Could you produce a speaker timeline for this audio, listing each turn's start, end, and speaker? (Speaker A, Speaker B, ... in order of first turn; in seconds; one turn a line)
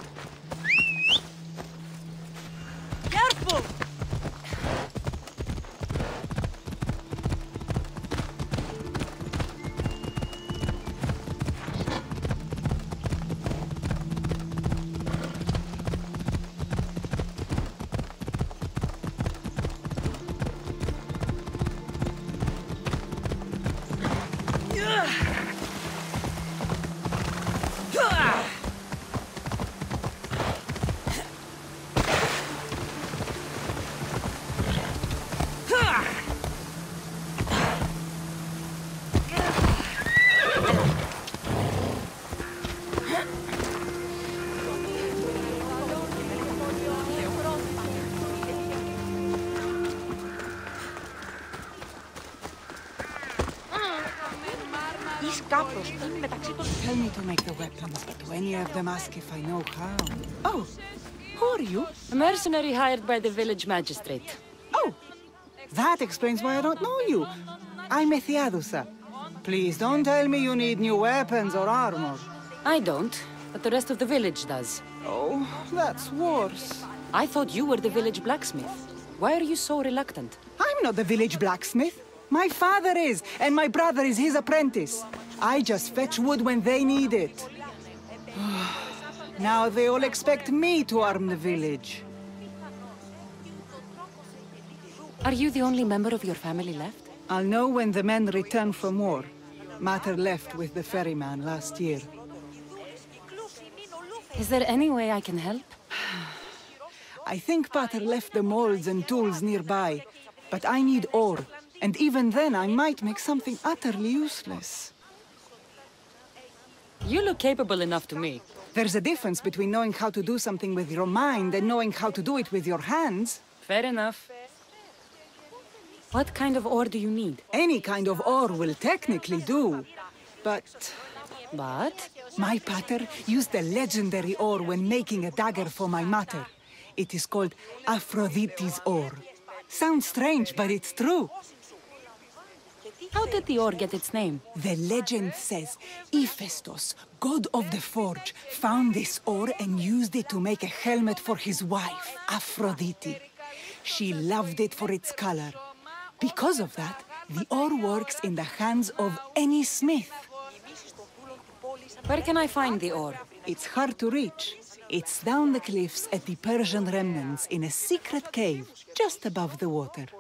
Speaker A: 55.0-60.7
Speaker A: 61.3-62.0
Speaker B: 62.1-64.4
Speaker A: 65.7-67.3
Speaker A: 67.9-72.3
Speaker B: 72.6-74.8
Speaker A: 75.0-76.9
Speaker B: 77.1-80.4
Speaker A: 80.6-87.5
Speaker A: 88.3-92.1
Speaker B: 95.2-97.1
Speaker A: 97.3-102.1
Speaker B: 104.3-105.8
Speaker A: 107.2-114.9
Speaker B: 117.0-118.4
Speaker A: 118.7-123.4
Speaker B: 123.6-124.3
Speaker B: 126.1-127.4
Speaker A: 127.5-129.9
Speaker A: 130.4-131.1
Speaker B: 131.5-132.1
Speaker A: 132.4-141.4
Speaker B: 143.1-144.4
Speaker A: 144.5-153.3
Speaker A: 153.8-155.6
Speaker A: 156.2-160.3
Speaker B: 162.1-163.2
Speaker A: 163.4-170.1